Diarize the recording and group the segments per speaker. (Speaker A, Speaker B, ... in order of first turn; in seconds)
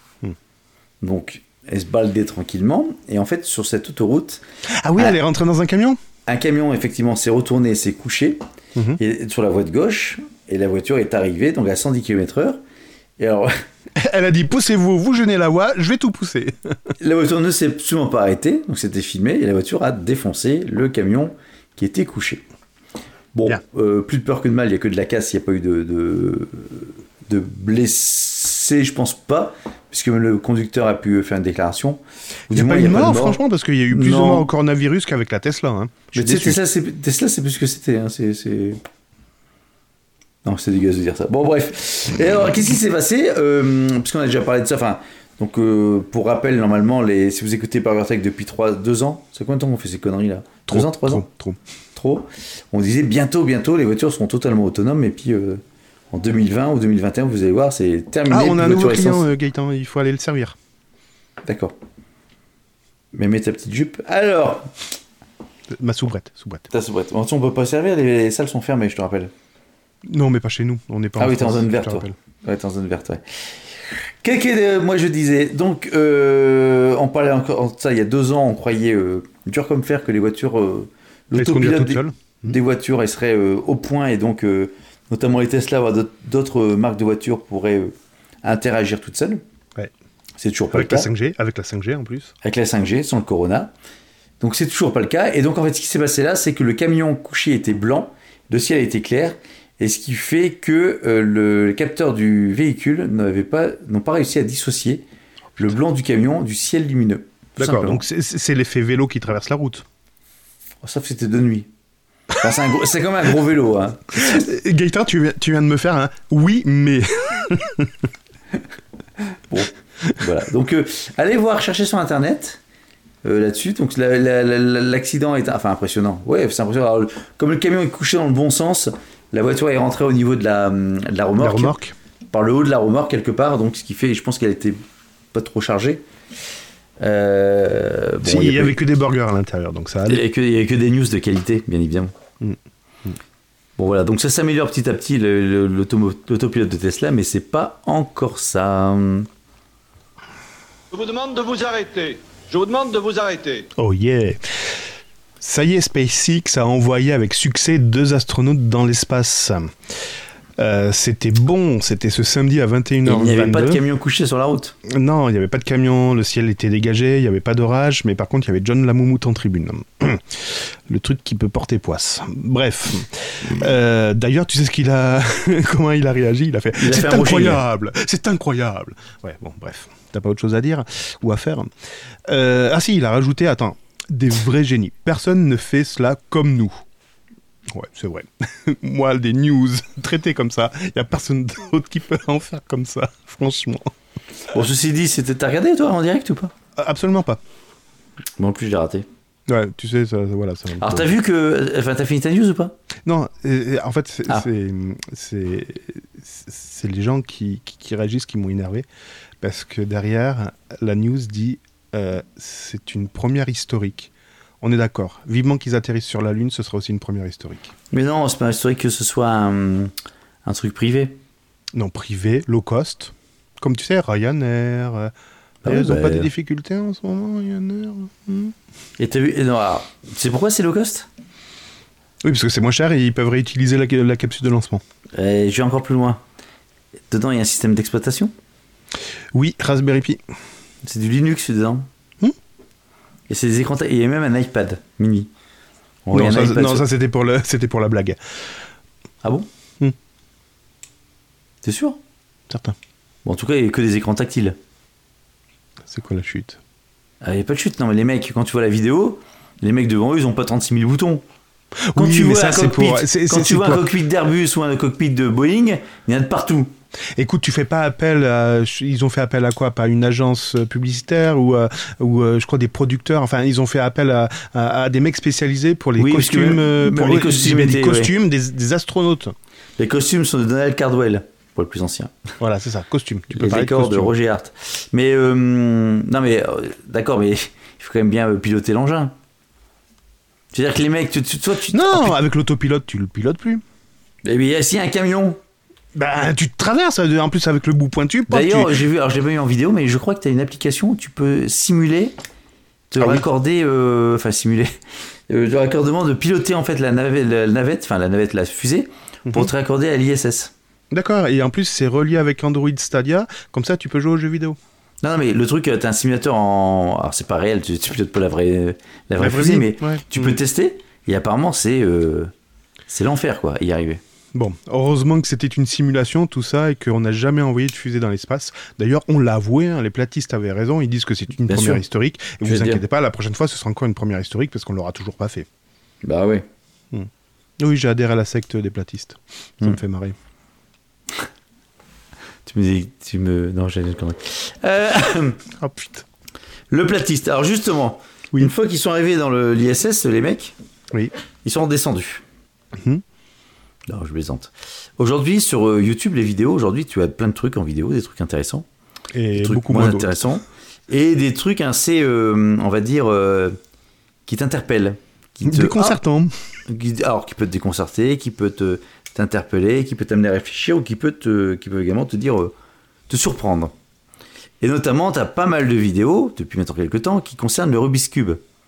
Speaker A: 1.0-4.4, 6.2-8.4, 9.0-12.6, 13.2-13.6, 17.0-22.4, 23.3-34.5, 36.1-38.8, 40.4-51.2, 51.9-59.3, 61.4-61.8, 63.1-64.7, 66.7-69.3, 71.2-89.4, 90.4-91.1, 92.4-93.7, 94.4-105.0, 105.6-108.0, 110.8-111.7, 112.4-114.5, 119.5-122.6, 123.2-131.8, 132.3-134.8, 135.3-136.0, 137.0-138.8, 140.1-142.1, 143.8-149.3, 163.0-164.8, 176.8-177.6, 194.5-196.5, 198.4-199.1, 200.8-202.8, 217.9-219.9, 220.4-221.2, 225.6-226.3, 229.0-231.1, 235.1-236.2, 237.1-238.3, 240.8-241.9, 243.3-245.3, 246.0-246.8, 251.6-252.0, 253.2-254.6, 257.2-261.2, 261.9-266.7, 276.0-278.1, 279.8-282.1, 283.3-289.1, 290.5-292.2, 294.2-295.4, 298.3-302.2, 302.9-304.8, 305.3-310.5, 315.0-322.3, 322.9-324.0, 331.5-331.8, 332.4-332.8, 336.0-336.4, 342.4-345.4, 346.7-350.5, 351.4-352.2, 353.9-358.6, 359.3-363.6, 364.2-366.0, 366.7-372.5, 373.1-373.7, 374.6-378.4
Speaker B: 4.7-6.0, 13.9-16.9, 32.5-36.6, 50.7-51.6, 58.3-60.5, 65.7-66.7, 70.0-72.1, 81.3-82.5, 90.7-92.3, 107.6-109.8, 114.1-118.0, 131.4-131.9, 138.2-140.2, 142.4-143.2, 153.8-154.4, 155.4-159.7, 160.6-163.8, 164.8-181.7, 182.3-186.8, 187.7-193.9, 196.8-197.4, 199.5-201.1, 203.1-208.8, 209.4-217.7, 221.7-225.1, 225.6-228.5, 232.2-234.8, 239.3-240.2, 246.1-248.2, 252.5-252.7, 255.9-256.6, 261.9-263.9, 267.2-279.3, 282.4-284.1, 291.7-293.6, 295.9-298.8, 310.9-314.6, 319.2-320.3, 324.3-335.5, 336.9-340.1, 345.6-346.0, 352.8-353.0, 359.1-360.2, 365.4-366.3
Speaker C: 150.9-153.7